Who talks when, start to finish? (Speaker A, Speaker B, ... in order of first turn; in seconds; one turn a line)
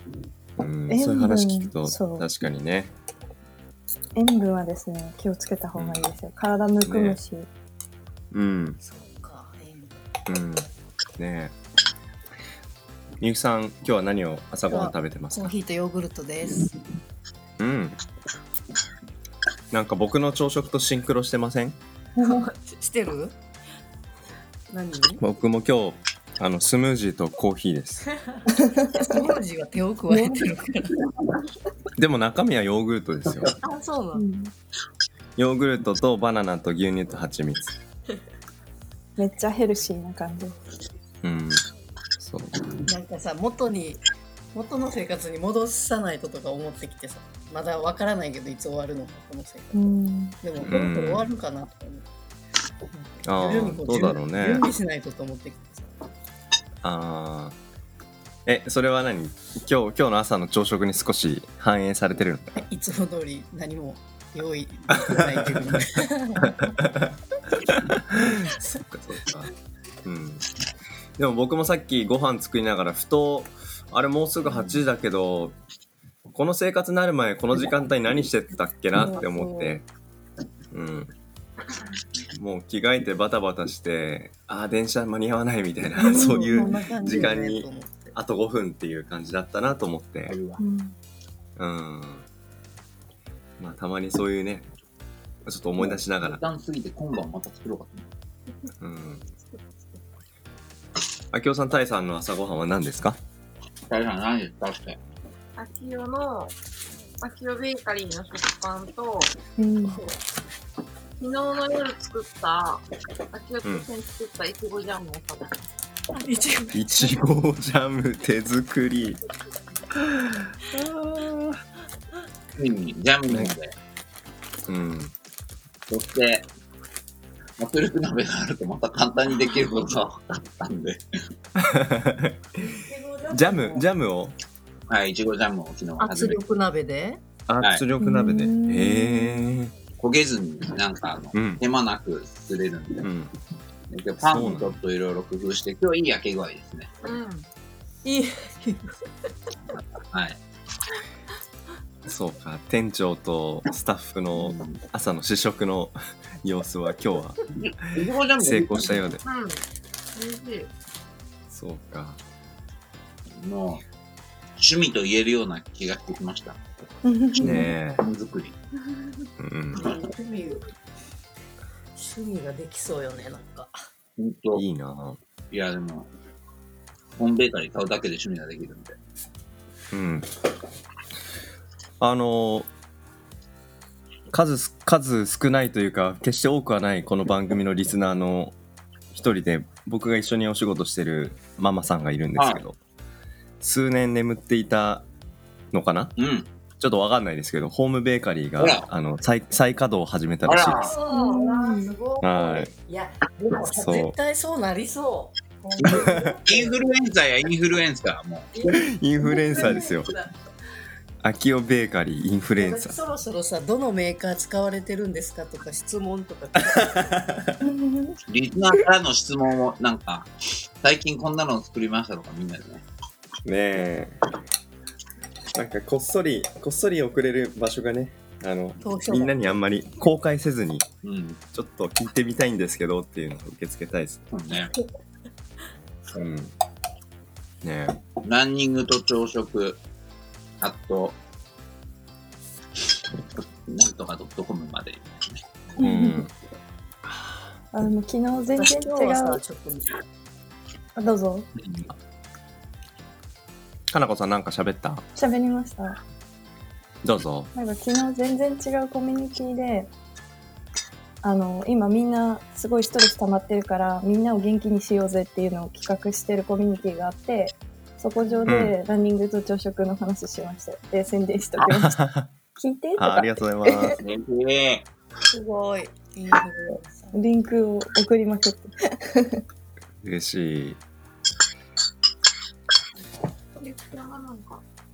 Speaker A: 0.6-2.9
Speaker B: 0.9-2.2
Speaker B: 4.1-7.5
Speaker A: 5.8-6.1
Speaker A: 6.8-7.2
Speaker A: 8.3-8.8
Speaker C: 8.8-10.0
Speaker A: 10.2-11.5
Speaker A: 13.2-15.5
Speaker C: 14.7-16.7
Speaker A: 17.6-18.0
Speaker A: 19.7-21.8
Speaker B: 22.2-22.5
Speaker C: 22.2-23.4
Speaker C: 24.7-25.2
Speaker A: 25.2-28.1
Speaker B: 28.6-29.1
Speaker C: 28.9-31.0
Speaker B: 30.1-30.4
Speaker A: 31.9-33.5
Speaker C: 33.6-34.2
Speaker B: 34.1-34.5
Speaker A: 35.4-37.8
Speaker B: 39.2-40.5
Speaker A: 41.2-41.6
Speaker A: 42.2-42.6
Speaker C: 42.9-44.0
Speaker C: 44.5-49.8
Speaker B: 49.7-50.4
Speaker C: 50.4-52.0
Speaker A: 50.6-51.3
Speaker C: 52.9-55.9
Speaker A: 53.2-54.7
Speaker A: 56.8-57.5
Speaker A: 58.5-62.6
Speaker C: 62.6-66.6
Speaker A: 65.1-65.7
Speaker A: 66.7-67.1
Speaker A: 68.1-69.5
Speaker A: 70.0-70.4
Speaker A: 71.2-75.5
Speaker A: 76.3-79.8
Speaker C: 79.0-79.8
Speaker A: 80.7-81.1
Speaker A: 82.3-90.3
Speaker C: 86.0-88.2
Speaker B: 86.0-87.3
Speaker D: 90.3-90.6
Speaker B: 90.6-91.0
Speaker A: 91.6-92.2
Speaker A: 93.6-94.7
Speaker A: 95.4-96.4
Speaker D: 95.8-98.1
Speaker A: 98.8-99.2
Speaker A: 101.3-103.2
Speaker D: 103.9-105.0
Speaker E: 105.5-106.5
Speaker E: 107.2-109.3
Speaker B: 109.6-110.0
Speaker E: 111.2-115.7
Speaker A: 113.6-113.9
Speaker C: 116.1-117.2
Speaker A: 116.7-119.2
Speaker A: 120.0-121.6
Speaker D: 122.5-123.7
Speaker A: 124.7-125.1
Speaker D: 125.9-126.5
Speaker D: 127.6-131.0
Speaker A: 131.6-132.4
Speaker C: 132.6-133.9
Speaker A: 133.3-134.3
Speaker D: 134.9-136.4
Speaker C: 136.0-137.2
Speaker A: 137.5-139.7
Speaker D: 137.6-137.9
Speaker B: 138.0-139.5
Speaker D: 139.9-143.1
Speaker A: 141.3-141.6
Speaker A: 143.0-143.3
Speaker D: 143.9-146.9
Speaker A: 144.2-144.8
Speaker E: 147.0-147.5
Speaker C: 148.0-149.1
Speaker D: 150.1-150.4
Speaker A: 152.1-157.4
Speaker D: 154.4-154.8
Speaker D: 157.5-159.1
Speaker A: 157.9-159.2
Speaker E: 159.2-159.6
Speaker E: 160.1-160.7
Speaker A: 161.5-162.2
Speaker D: 163.3-163.8
Speaker D: 164.6-166.6
Speaker B: 167.0-167.7
Speaker A: 167.4-168.0
Speaker D: 167.4-168.6
Speaker A: 169.4-169.8
Speaker C: 169.7-170.7
Speaker C: 171.9-173.7
Speaker D: 174.2-174.6
Speaker A: 174.5-175.2
Speaker D: 175.5-176.1
Speaker D: 177.2-179.0
Speaker A: 179.9-180.3
Speaker A: 182.0-182.7
Speaker A: 184.3-188.5
Speaker A: 189.1-192.8
Speaker D: 192.3-192.6
Speaker A: 193.6-195.0
Speaker A: 195.7-196.1
Speaker D: 196.2-196.5
Speaker A: 196.8-200.9
Speaker D: 198.6-198.8
Speaker D: 200.4-200.9
Speaker C: 200.7-206.9
Speaker E: 201.0-201.5
Speaker B: 201.1-201.9
Speaker A: 202.2-202.7
Speaker A: 203.7-204.1
Speaker D: 205.8-208.8
Speaker A: 205.9-206.3
Speaker C: 208.5-210.3
Speaker A: 208.7-210.1
Speaker A: 211.2-212.9
Speaker C: 212.6-217.2
Speaker B: 217.6-218.2
Speaker D: 218.3-220.3
Speaker D: 220.8-222.8
Speaker A: 223.4-224.2
Speaker A: 225.5-230.9
Speaker C: 228.8-229.5
Speaker D: 231.0-231.4
Speaker A: 231.5-234.2
Speaker D: 234.3-234.7
Speaker A: 236.1-236.5
Speaker A: 237.6-238.0
Speaker D: 238.2-239.8
Speaker D: 240.6-241.2
Speaker D: 243.6-245.8
Speaker B: 245.8-246.2
Speaker A: 245.8-246.3
Speaker B: 247.7-249.4
Speaker C: 248.5-249.9
Speaker B: 250.9-251.5
Speaker A: 253.9-255.0
Speaker B: 255.1-256.0
Speaker A: 257.0-257.5
Speaker B: 257.5-259.9
Speaker B: 261.2-272.0
Speaker C: 268.2-268.5
Speaker A: 268.5-268.8
Speaker A: 271.6-272.3
Speaker B: 272.6-274.0
Speaker A: 273.0-274.0
Speaker D: 274.0-274.9
Speaker C: 275.3-277.2
Speaker B: 277.1-279.4
Speaker A: 280.0-280.8
Speaker E: 283.6-284.6